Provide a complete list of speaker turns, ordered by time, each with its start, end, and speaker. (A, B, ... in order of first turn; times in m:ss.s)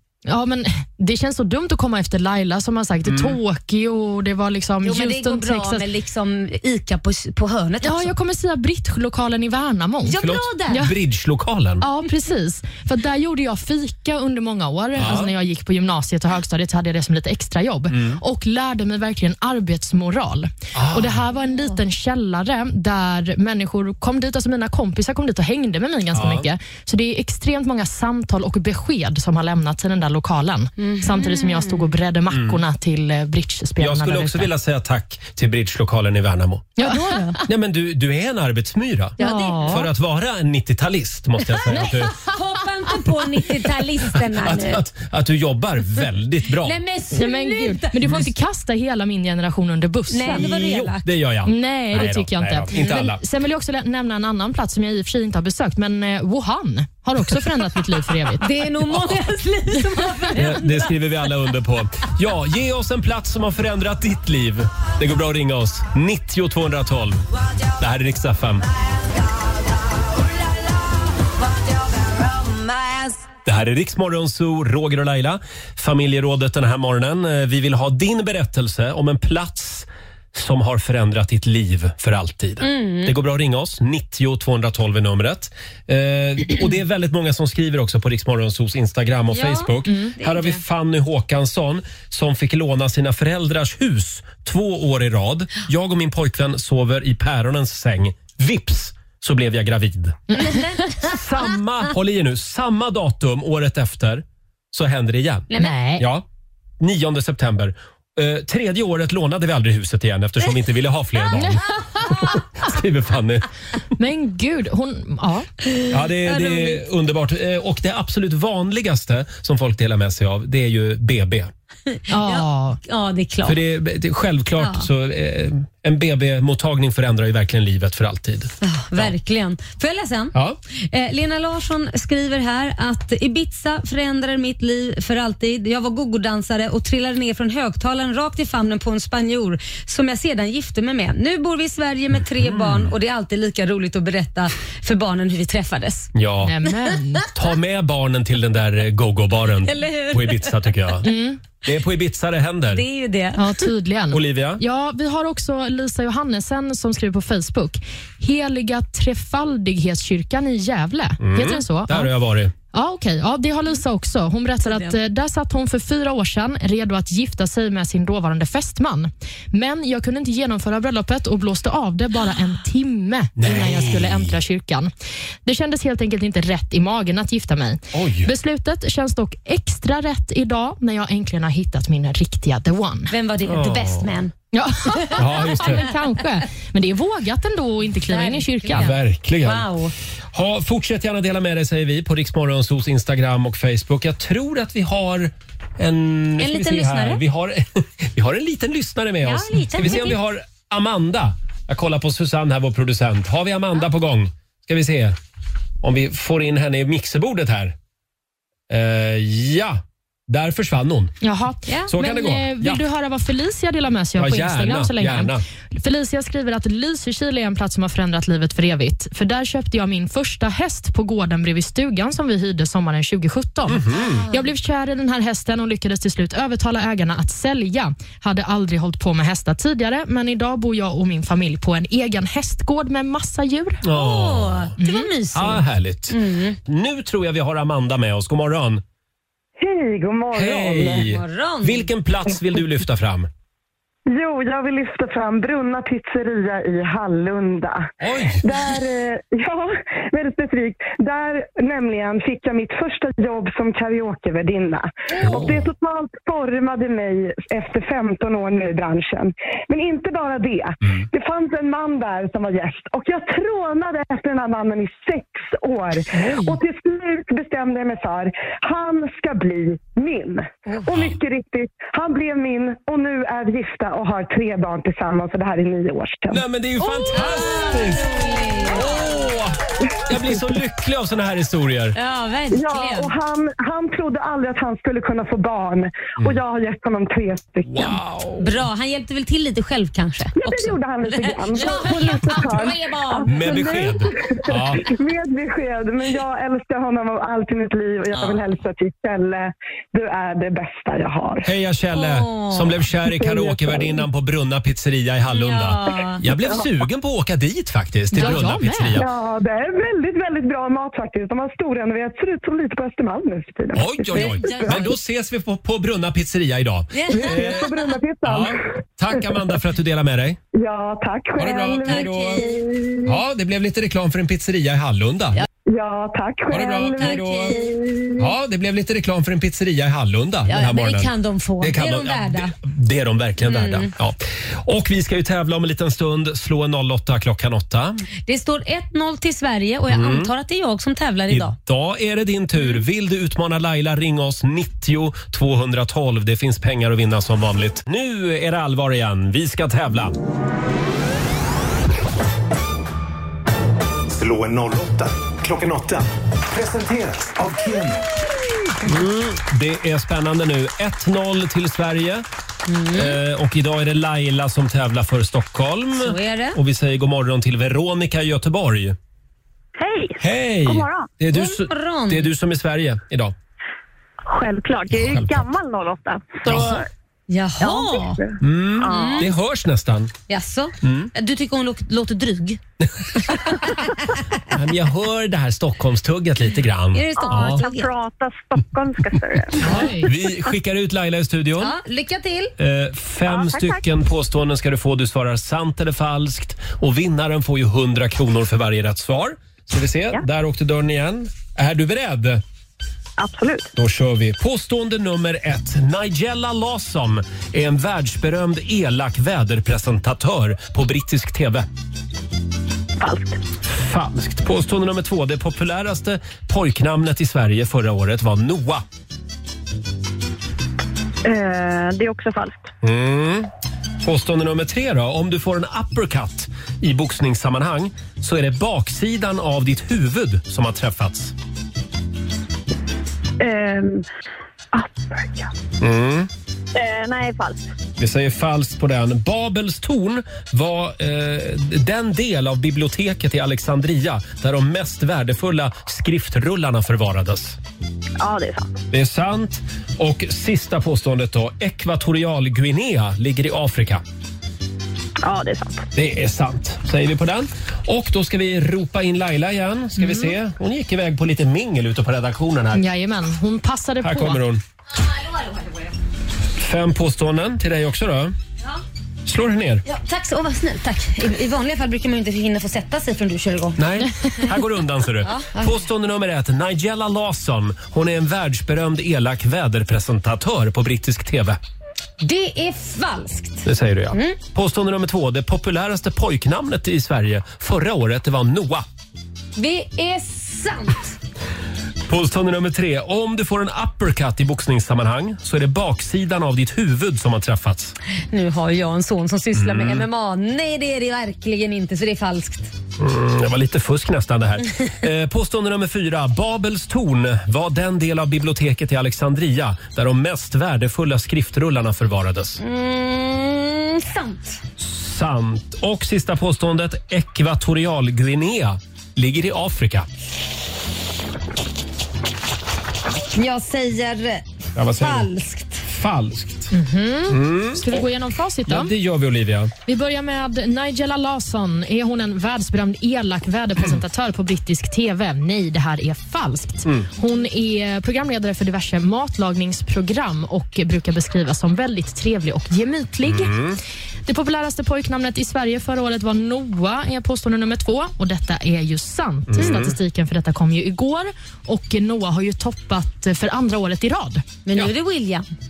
0:00.2-0:05.8 A
0:03.0-0:03.4 B
0:04.8-0:08.1 C
0:07.8-0:10.2 A
0:10.0-0:10.9 C
0:10.2-0:11.8 B
0:11.8-0:34.5 A
0:15.0-0:15.3 B
0:17.9-0:18.2 B
0:20.7-0:21.2 B
0:26.1-0:26.5 B
0:30.8-0:31.9 C
0:32.3-0:32.6 B
0:33.8-0:36.8 B
0:36.8-0:37.4 A
0:37.0-0:37.3 C
0:37.4-0:42.2 B
0:39.2-0:39.8 C
0:39.2-0:39.8 A
0:41.7-0:44.8 C
0:44.2-0:46.8 B
0:46.6-0:48.2 C
0:47.1-0:50.5 A
0:50.1-0:51.1 C
0:50.3-0:53.2 B
0:51.4-0:58.4 A
0:52.7-0:53.0 C
0:58.4-1:00.9 C
1:00.4-1:08.6 B
1:13.4-1:40.4 B
1:22.6-1:23.1 C
1:29.3-1:30.6 C
1:40.3-1:41.1 C
1:41.0-1:46.2 B
1:45.5-1:45.8 C
1:45.6-1:46.0 A
1:46.8-1:53.4 B
1:51.4-1:51.6 A
1:54.0-1:55.5 A
1:55.7-1:56.8 C
1:55.9-2:01.5 B
2:01.9-2:03.6 C
2:02.1-2:02.8 A
2:03.4-2:09.1 B
2:04.6-2:04.9 C
2:08.6-2:26.1 C
2:22.2-2:22.9 B
2:26.1-2:26.5 B
2:26.4-2:27.2 A
2:27.3-2:31.1 B
2:29.6-2:30.6 C
2:31.0-2:31.4 A
2:31.6-2:32.8 B
2:32.7-2:33.6 C
2:33.4-2:42.1 A
2:34.1-2:34.6 B
2:41.2-2:42.5 B
2:42.7-2:54.9 A
2:44.6-2:44.9 C
2:53.4-2:54.3 B
2:55.4-3:03.1 A
2:57.9-2:58.3 B
3:03.1-3:04.3 C
3:03.4-3:04.1 B
3:04.5-3:08.9 A
3:05.2-3:05.8 B
3:08.1-3:09.9 C
3:08.7-3:09.7 B
3:10.3-3:25.2 B
3:16.4-3:17.2 C
3:19.2-3:20.2 C
3:25.8-3:27.8 B
3:28.7-3:31.2 B
3:31.2-3:53.8 A
3:31.9-3:32.8 B
3:34.2-3:35.4 B
3:43.7-3:44.2 B
3:44.0-3:44.4 C
3:53.8-3:54.7 B
3:53.9-3:56.6 C
3:54.8-3:55.1 A
3:55.3-3:58.8 B
3:59.6-4:01.1 D
4:00.3-4:03.3 B
4:00.9-4:01.9 C
4:04.1-4:36.4 D
4:08.0-4:08.4 B
4:15.2-4:15.7 B
4:26.2-4:26.5 A
4:30.9-4:31.2 B
4:36.3-4:38.1 B
4:37.0-4:39.2 C
4:38.7-4:42.0 B
4:42.0-4:43.1 C
4:42.5-4:48.0 D
4:47.6-4:48.6 B
4:48.4-4:53.9 C
4:50.4-5:01.5 D
4:53.3-4:54.9 B
5:01.4-5:09.1 B
5:01.9-5:02.9 C
5:03.1-5:04.0 D
5:05.3-5:06.2 C
5:08.1-5:09.0 A
5:08.9-5:14.9 D
5:13.7-5:17.7 B
5:14.2-5:14.9 C
5:16.9-5:17.7 C
5:17.1-5:18.6 D
5:18.2-5:20.4 B
5:19.1-5:19.4 D
5:20.5-5:23.2 D
5:21.4-5:25.4 B
5:21.8-5:22.5 C
5:25.6-5:28.3 D
5:26.5-5:27.6 B
5:27.0-5:27.7 C
5:28.2-5:38.0 B
5:30.5-5:32.5 C
5:33.4-5:33.9 C
5:38.2-5:41.6 C
5:39.9-5:40.3 B
5:41.3-5:50.2 B
5:54.1-5:58.1 E
5:58.8-6:02.2 B
6:02.7-6:03.2 C
6:02.9-6:09.0 B
6:06.0-6:06.6 C
6:09.8-6:11.1 F
6:10.2-6:13.3 B
6:11.3-6:12.3 C
6:14.2-6:16.8 F
6:14.9-6:15.4 B
6:16.4-6:16.8 B
6:17.3-6:18.2 C
6:17.6-6:19.3 F
6:18.4-6:20.1 B
6:18.9-6:19.3 C
6:20.3-6:22.6 C
6:20.8-6:21.1 B
6:23.3-6:23.9 C
6:24.5-6:27.6 B
6:26.9-6:27.9 C
6:27.2-6:29.8 F
6:29.7-6:30.0 A
6:29.8-6:31.7 B
6:31.6-6:32.5 C
6:32.6-6:42.4 B
6:33.3-6:33.8 F
6:43.2-6:43.7 F
6:43.8-6:51.7 B
6:53.0-6:53.4 F
6:53.6-6:58.8 B
7:01.2-7:02.6 F
7:02.8-7:03.5 B
7:04.0-7:11.3 B
7:13.4-7:14.0 F
7:14.7-7:15.5 F
7:15.8-7:16.3 B
7:16.7-7:17.6 F
7:18.0-7:27.6 B
7:28.2-7:28.7 F
7:28.9-7:34.0 B
7:35.2-7:35.8 F
7:35.9-7:42.8 B
7:40.0-7:40.3 A
7:42.7-7:44.4 A
7:44.0-7:44.6 B
7:46.6-7:48.3 B
7:49.2-7:49.8 B
7:49.8-7:53.8 C
7:53.8-8:01.6 B
7:55.2-7:55.8 C
8:02.2-8:04.4 C
8:03.6-8:08.8 B
8:09.6-8:11.2 C
8:12.1-8:17.9 B
8:18.3-8:22.7 C
8:19.5-8:20.1 B
8:23.0-8:32.6 B
8:32.6-8:34.6 C
8:34.8-8:40.1 B
8:43.3-8:44.4 C
8:44.8-8:45.3 B
8:45.0-8:45.8 C
8:45.8-8:46.7 B
8:46.7-8:48.9 A
8:47.3-8:47.9 B
8:48.7-8:49.7 B
8:49.8-9:03.6 A
9:03.2-9:03.8 B
9:04.2-9:14.4 A
9:09.5-9:09.9 B
9:14.6-9:15.4 C